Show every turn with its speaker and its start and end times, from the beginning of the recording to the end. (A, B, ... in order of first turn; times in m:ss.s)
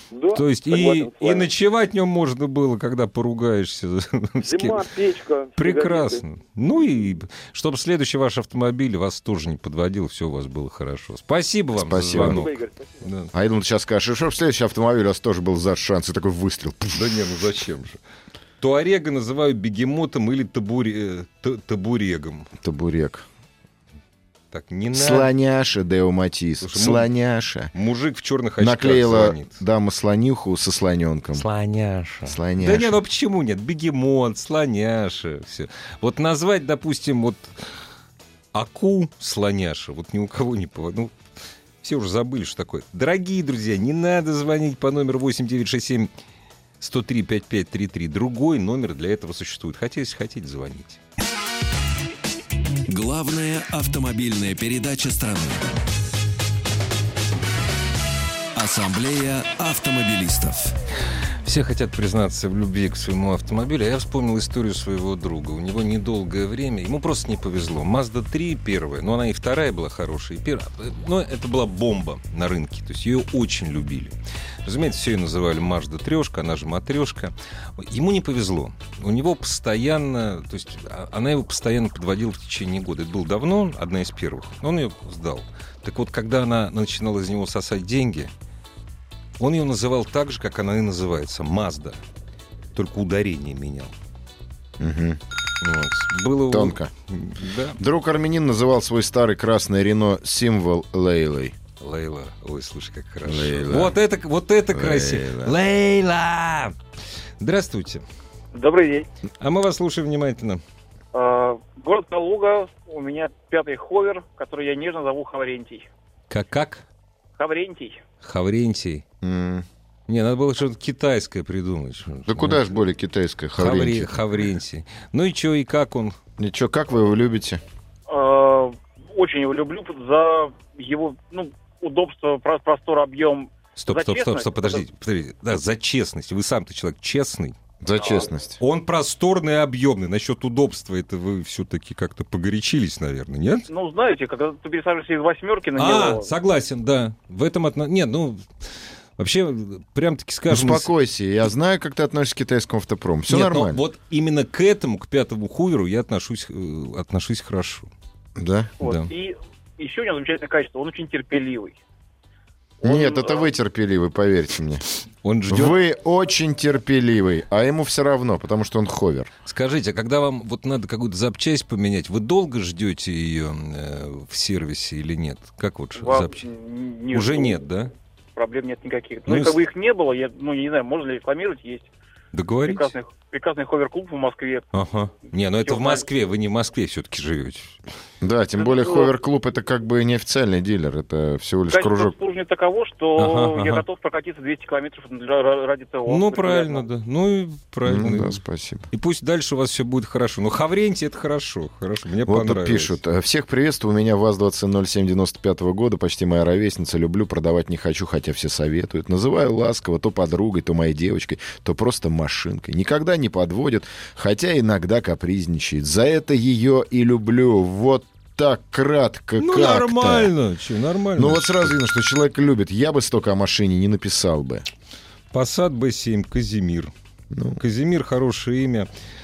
0:00.1-0:01.5 A
0:00.3-0:04.9 B
0:04.4-0:06.2 A
0:05.6-0:13.3 B
0:11.8-0:12.5 C
0:12.1-0:13.1 A
0:13.3-0:17.2 C
0:17.0-0:18.0 B
0:18.6-0:22.5 B
0:22.6-0:23.3 C
0:24.5-0:25.3 B
0:24.9-0:27.7 C
0:26.6-0:27.1 B
0:27.7-0:29.6 B
0:28.6-0:31.5 C
0:31.3-0:37.6 B
0:32.2-0:33.0 C
0:38.5-0:41.2 B
0:41.8-0:46.1 B
0:46.8-0:51.0 B
0:52.9-0:55.8 D
0:58.6-1:00.7 D
1:01.4-1:14.1 B
1:14.6-1:28.3 B
1:29.4-1:32.0 B
1:32.8-1:33.9 B
1:34.8-1:35.2 C
1:35.6-1:37.8 B
1:36.5-1:36.9 C
1:37.8-1:41.6 C
1:41.8-1:46.8 B
1:43.3-1:44.0 C
1:44.7-1:45.6 C
1:47.4-1:48.0 B
1:48.5-1:49.1 E
1:49.4-1:50.6 B
1:51.1-1:55.9 E
1:56.3-1:56.8 B
1:57.4-1:58.0 E
1:58.2-1:59.0 B
1:59.2-1:59.7 C
2:00.1-2:02.6 B
2:02.3-2:04.2 C
2:03.6-2:06.2 B
2:06.4-2:07.6 C
2:08.1-2:14.8 E
2:13.8-2:17.6 B
2:17.8-2:18.6 C
2:18.6-2:23.7 B
2:23.7-2:26.3 E
2:25.8-2:28.5 B
2:29.2-2:30.9 B
2:30.5-2:33.8 C
2:33.3-2:37.9 B
2:38.4-2:38.7 C
2:38.8-2:41.8 E
2:38.8-2:39.1 B
2:42.8-2:43.5 E
2:42.8-2:44.8 C
2:45.2-2:45.8 B
2:45.5-2:49.3 C
2:49.5-2:56.4 B
2:56.0-2:57.6 E
2:57.1-2:57.9 B
2:58.4-3:01.9 E
2:59.3-2:59.6 B
3:02.3-3:02.9 B
3:02.6-3:04.7 E
3:04.7-3:07.8 B
3:05.6-3:06.1 E
3:08.2-3:12.2 C
3:08.6-3:09.1 E
3:11.7-3:16.9 E
3:13.2-3:13.8 B
3:16.1-3:18.4 B
3:17.9-3:18.9 C
3:18.9-3:23.0 B
3:22.3-3:40.3 C
3:39.4-3:41.8 B
3:41.2-3:44.7 C
3:45.3-3:46.9 B
3:47.3-3:47.6 C
3:47.6-3:48.9 B